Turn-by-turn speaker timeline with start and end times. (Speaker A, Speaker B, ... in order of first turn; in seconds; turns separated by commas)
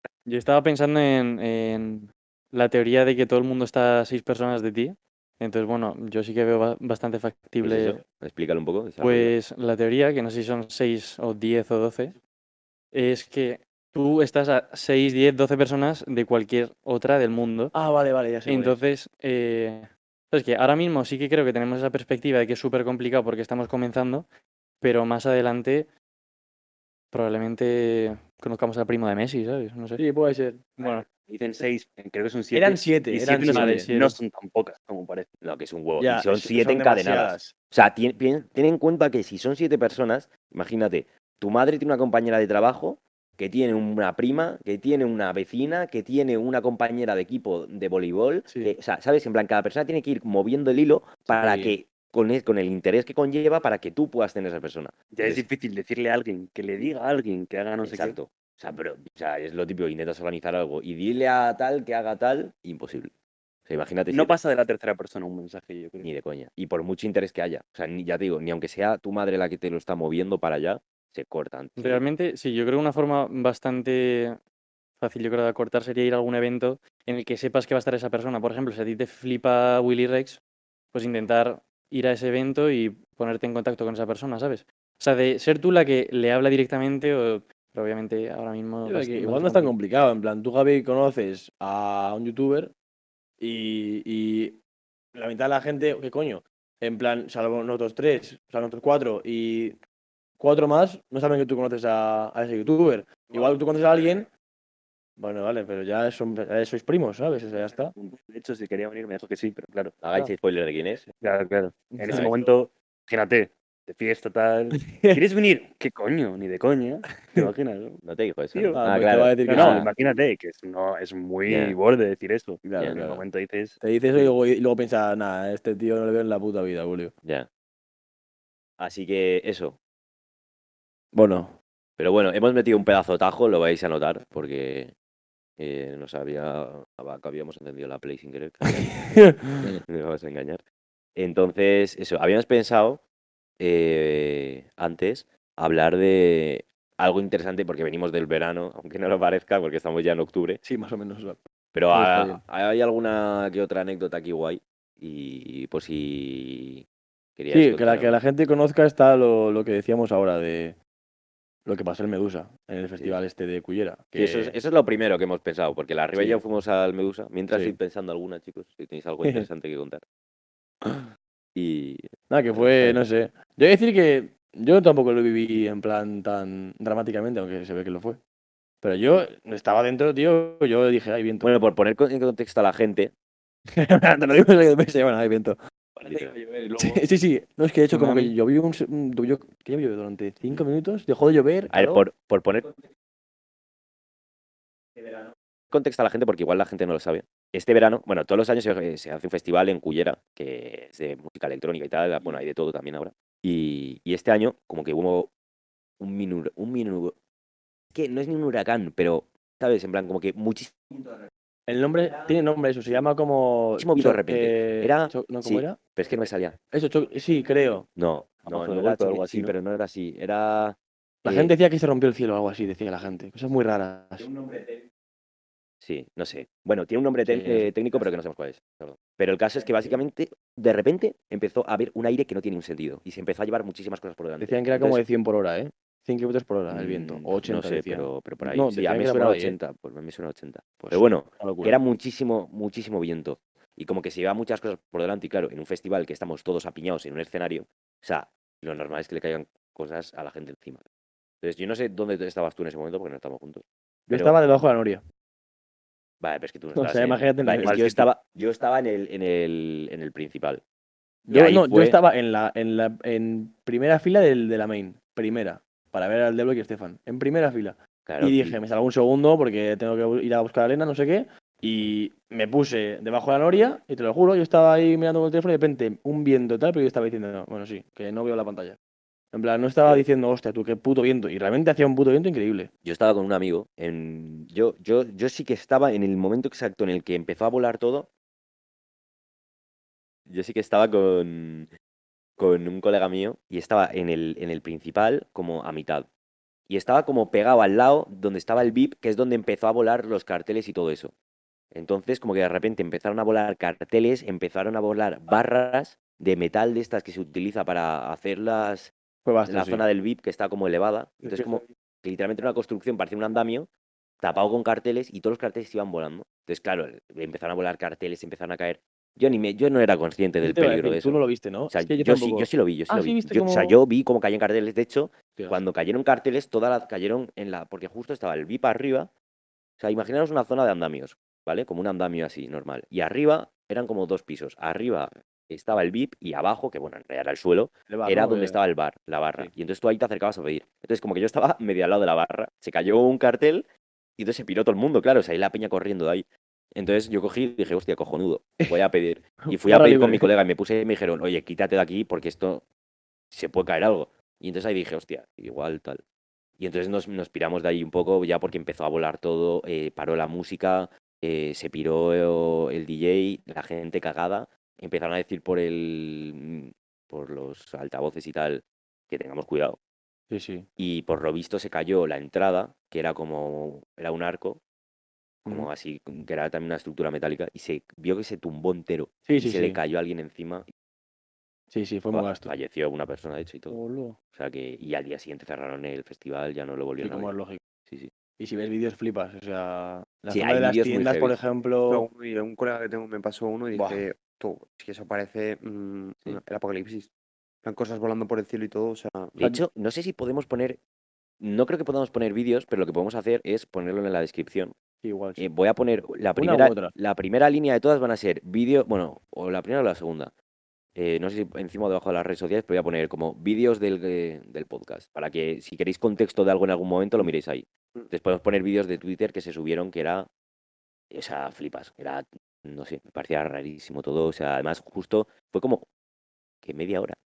Speaker A: 0.3-8.0, Speaker B: 7.6-9.3, Speaker A: 9.0-12.2, Speaker A: 12.9-17.7, Speaker C: 17.7-18.8, Speaker A: 18.5-24.3, Speaker A: 24.8-25.9, Speaker A: 27.1-30.0, Speaker C: 30.0-30.7, Speaker A: 30.8-31.0, Speaker D: 30.8-35.3, Speaker C: 32.5-33.9, Speaker A: 33.4-34.2, Speaker B: 35.4-55.5, Speaker C: 36.0-37.5, Speaker C: 48.5-48.8, Speaker C: 51.3-51.8, Speaker D: 55.1-58.2, Speaker B: 57.8-63.1, Speaker B: 63.7-64.4, Speaker D: 64.1-66.1, Speaker B: 66.0-72.0, Speaker A: 71.8-74.4, Speaker A: 75.0-80.4, Speaker A: 80.9-89.7, Speaker C: 88.8-92.7, Speaker C: 93.4-94.6, Speaker C: 95.1-99.8, Speaker C: 100.4-104.3, Speaker C: 105.2-107.9, Speaker D: 107.9-110.0, Speaker B: 110.0-111.1, Speaker D: 111.2-118.0, Speaker C: 111.9-112.5, Speaker C: 114.9-115.2, Speaker B: 118.0-119.9, Speaker D: 118.5-118.8, Speaker C: 118.7-119.9, Speaker D: 119.5-123.8, Speaker B: 121.5-121.8, Speaker C: 122.6-123.2, Speaker B: 122.8-123.1, Speaker C: 123.8-127.1, Speaker B: 128.8-129.8, Speaker C: 131.1-131.6, Speaker B: 132.0-134.9, Speaker B: 135.6-140.6, Speaker C: 138.8-139.8, Speaker B: 141.2-143.0, Speaker B: 143.6-150.6, Speaker C: 150.6-151.4, Speaker B: 151.7-156.8, Speaker C: 151.9-152.4, Speaker B: 157.4-158.1, Speaker C: 157.5-160.8, Speaker C: 161.7-164.5, Speaker B: 164.2-170.0, Speaker C: 166.1-166.4, Speaker C: 167.5-167.8, Speaker B: 171.6-173.0, Speaker C: 172.3-178.2, Speaker C: 178.8-181.5, Speaker B: 181.4-183.1, Speaker C: 183.8-185.6, Speaker B: 186.1-186.3, Speaker C: 186.8-192.1, Speaker A: 187.9-188.3, Speaker B: 191.7-192.8, Speaker B: 195.7-205.3, Speaker B: 206.0-207.2, Speaker B: 207.9-211.2, Speaker C: 211.7-215.8, Speaker B: 213.8-216.6, Speaker C: 216.7-217.9, Speaker B: 218.0-221.6, Speaker D: 218.4-219.5, Speaker C: 221.2-224.3, Speaker B: 224.2-224.8, Speaker B: 225.8-235.0, Speaker C: 227.3-227.7, Speaker C: 234.4-239.6, Speaker B: 236.7-250.8, Speaker C: 240.8-241.8, Speaker B: 251.4-254.4, Speaker C: 254.1-255.0, Speaker B: 256.2-260.6, Speaker C: 256.8-257.9, Speaker D: 257.6-258.1, Speaker C: 261.3-278.8, Speaker B: 261.3-262.0, Speaker B: 268.1-268.6, Speaker C: 279.3-282.7, Speaker B: 282.8-288.1, Speaker B: 290.3-291.7, Speaker B: 292.4-296.1, Speaker B: 296.7-301.1, Speaker B: 301.7-308.9, Speaker C: 309.2-309.9, Speaker B: 309.5-313.7, Speaker C: 311.2-311.7, Speaker B: 314.2-329.1, Speaker C: 320.4-323.8, Speaker C: 325.4-325.6, Speaker B: 329.8-352.6, Speaker C: 337.9-338.6, Speaker C: 349.4-350.3, Speaker B: 353.3-356.0, Speaker B: 356.6-369.8, Speaker C: 370.3-370.7, Speaker B: 370.8-374.6, Speaker B: 375.5-380.6, Speaker C: 379.3-379.8, Speaker C: 381.7-382.5, Speaker B: 382.1-383.8, Speaker C: 383.7-384.2, Speaker B: 384.3-387.3, Speaker C: 387.0-387.6, Speaker C: 388.4-392.1, Speaker B: 390.3-391.4, Speaker E: 391.9-397.1, Speaker C: 393.7-394.1, Speaker E: 397.6-399.4, Speaker B: 399.4-400.8, Speaker C: 399.4-399.6, Speaker B: 401.4-404.8, Speaker C: 405.0-405.5, Speaker B: 405.4-410.3, Speaker C: 406.4-406.9, Speaker B: 410.9-420.3, Speaker B: 421.1-425.9, Speaker B: 426.6-427.2